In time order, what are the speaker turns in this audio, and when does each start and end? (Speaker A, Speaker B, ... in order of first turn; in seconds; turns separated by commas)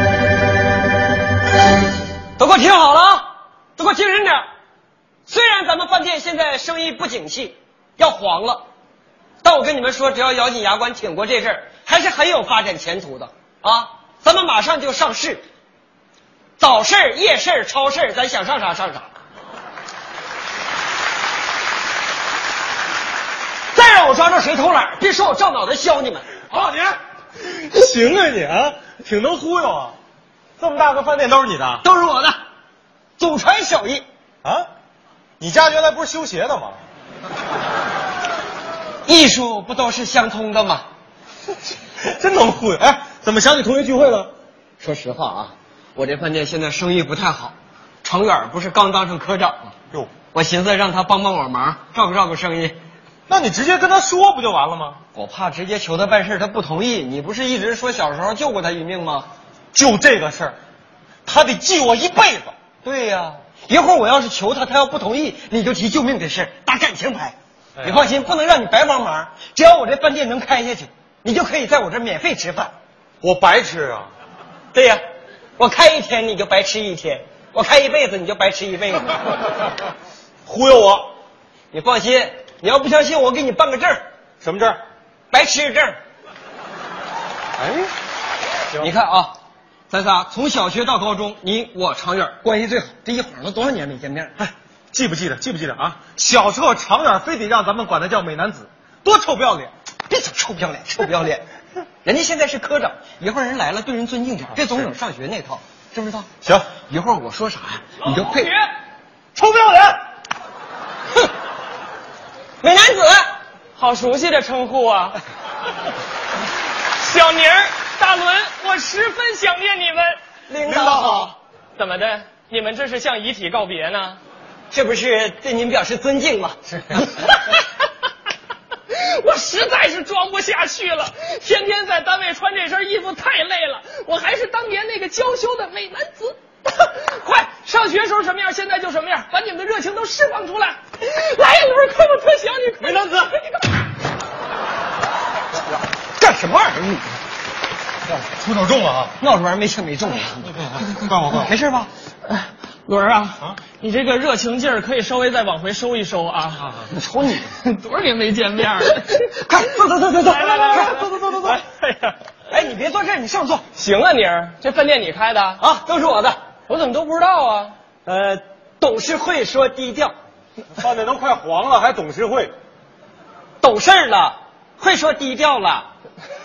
Speaker A: 2.4-4.4, Speaker A: 5.3-8.7, Speaker A: 9.4-15.4, Speaker A: 16.6-19.1, Speaker A: 23.7-26.4, Speaker B: 26.4-29.9, Speaker B: 30.6-31.8, Speaker A: 31.8-32.4, Speaker A: 33.2-34.0, Speaker B: 35.4-36.8, Speaker A: 39.1-40.9, Speaker B: 42.0-44.3, Speaker A: 44.8-49.7, Speaker A: 50.3-52.8, Speaker B: 53.3-55.0, Speaker A: 55.1-59.3, Speaker B: 59.7-60.6, Speaker B: 61.3-62.5, Speaker A: 62.8-72.7, Speaker B: 73.2-74.1, Speaker A: 74.7-75.0, Speaker A: 75.6-79.2, Speaker B: 80.5-81.1, Speaker A: 81.7-84.0, Speaker B: 84.4-84.8, Speaker A: 85.3-86.0, Speaker B: 87.6-87.9, Speaker A: 88.8-89.3, Speaker A: 89.9-94.4, Speaker B: 94.4-99.7, Speaker A: 100.1-101.5, Speaker A: 102.0-106.3, Speaker B: 106.4-106.7, Speaker A: 106.8-108.5, Speaker C: 108.0-108.7, Speaker B: 109.3-110.0, Speaker A: 112.6-113.2, Speaker C: 113.8-115.2, Speaker C: 117.0-120.2, Speaker A: 120.5-121.3, Speaker B: 120.7-121.3, Speaker C: 121.8-124.2, Speaker A: 124.7-127.1, Speaker C: 128.9-143.7, Speaker B: 142.8-143.3, Speaker A: 146.2-147.2, Speaker B: 148.1-149.2, Speaker A: 149.2-150.5, Speaker B: 150.7-151.5, Speaker A: 151.3-151.9, Speaker C: 152.3-156.8, Speaker A: 156.8-157.5, Speaker C: 157.6-159.2, Speaker A: 159.2-161.1, Speaker B: 160.3-161.6, Speaker C: 160.4-162.2, Speaker A: 162.5-163.6, Speaker C: 163.7-165.6, Speaker A: 165.6-166.4, Speaker C: 166.7-167.8, Speaker A: 168.1-170.1, Speaker B: 170.8-172.5, Speaker A: 173.6-175.9